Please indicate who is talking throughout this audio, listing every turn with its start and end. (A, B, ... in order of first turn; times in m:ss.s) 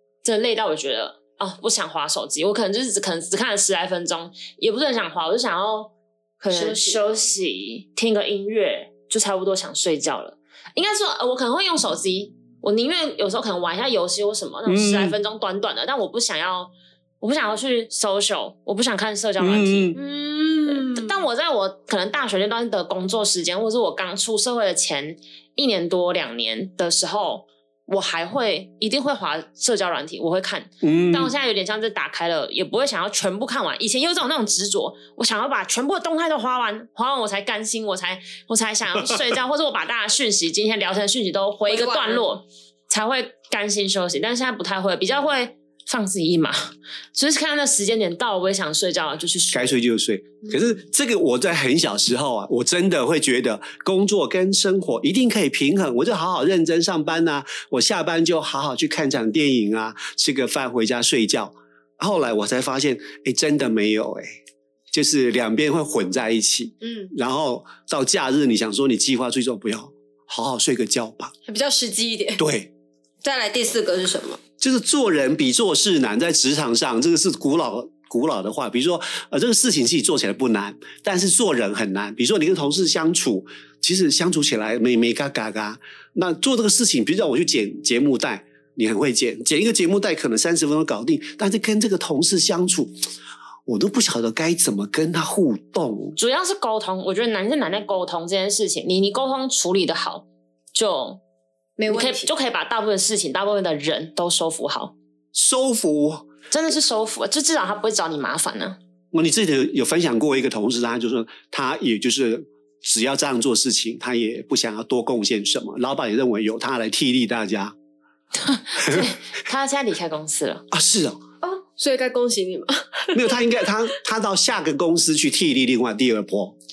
0:00.2-0:20.0 A
0:06.5-0:07.1 B
0:14.7-0:15.2 C
0:19.4-0:20.0 C
0:20.0-0:21.1 B
0:20.6-0:49.8 A
0:30.8-0:31.3 C
0:41.7-0:42.3 B
0:49.5-1:04.3 C
1:04.9-1:11.3 C
1:06.8-1:07.1 B
1:11.4-1:12.4 B
1:12.4-1:12.7 C
1:13.2-1:14.4 B
1:14.6-1:33.0 C
1:33.7-1:36.2 C
1:36.2-1:41.2 A
1:41.8-1:42.3 B
1:41.9-1:44.9 A
1:45.3-1:46.2 C
1:46.5-1:48.8 A
1:49.1-1:57.7 C
1:58.4-2:00.6 A
2:00.7-2:01.2 C
2:01.4-2:03.4 B
2:03.1-2:06.5 C